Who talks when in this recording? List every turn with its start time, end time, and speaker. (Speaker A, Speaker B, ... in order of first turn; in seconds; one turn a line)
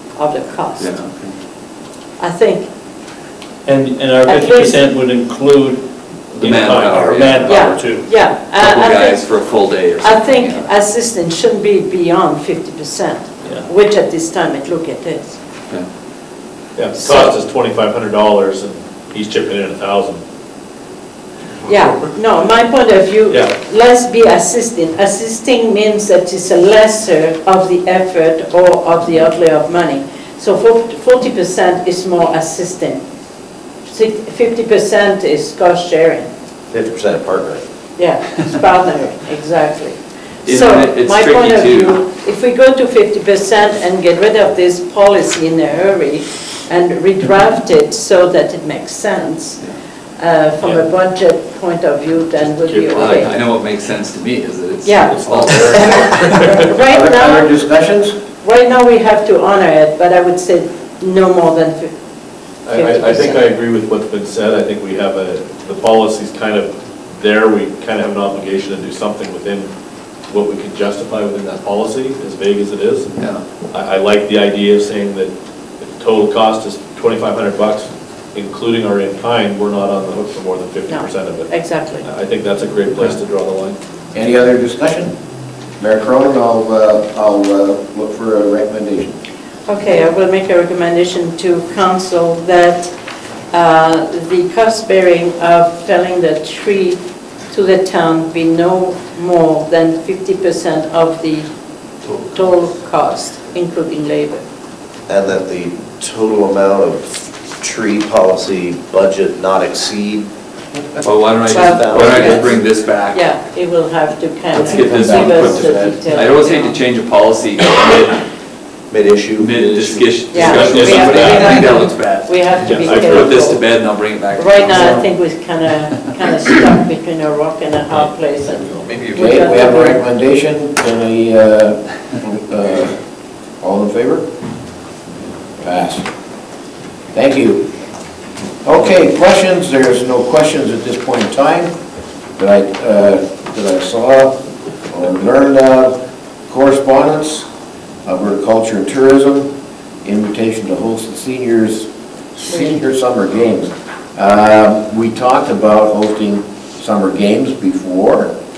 Speaker A: 0.1-0.9
Speaker B: 0.8-1.4
Speaker A: 2.2-2.7
Speaker C: 3.7-5.8
Speaker A: 4.2-4.8
Speaker D: 6.3-7.3
Speaker B: 6.4-10.7
Speaker C: 7.2-8.0
Speaker A: 7.5-9.4
Speaker A: 10.0-15.4
Speaker D: 16.8-20.2
Speaker A: 17.0-17.4
Speaker A: 21.7-33.0
Speaker A: 33.9-36.3
Speaker E: 36.7-37.6
Speaker A: 38.0-49.6
Speaker B: 40.4-42.0
Speaker A: 50.2-53.3
Speaker D: 52.4-53.2
Speaker B: 53.0-56.4
Speaker A: 54.8-57.5
Speaker D: 55.1-56.6
Speaker F: 56.7-58.1
Speaker A: 58.4-61.9
Speaker D: 62.6-69.7
Speaker A: 62.7-63.5
Speaker D: 70.3-73.1
Speaker B: 73.2-73.4
Speaker D: 73.7-83.8
Speaker A: 80.9-82.1
Speaker F: 84.1-85.1
Speaker F: 85.8-89.2
Speaker A: 89.7-92.9
Speaker A: 93.5-101.5
Speaker A: 102.1-104.4
Speaker E: 105.1-110.3
Speaker B: 111.0-113.3
Speaker E: 111.5-112.6
Speaker A: 111.5-116.8
Speaker B: 114.5-118.2
Speaker F: 114.7-115.9
Speaker E: 118.9-120.7
Speaker B: 119.3-125.1
Speaker A: 120.3-123.7
Speaker D: 120.5-121.8
Speaker D: 122.6-123.4
Speaker A: 124.3-130.0
Speaker B: 128.8-129.7
Speaker F: 129.1-133.0
Speaker F: 133.6-134.3
Speaker F: 135.6-136.1
Speaker F: 137.1-137.7
Speaker F: 138.6-141.7
Speaker F: 142.4-147.4
Speaker F: 148.0-149.5
Speaker F: 150.0-158.3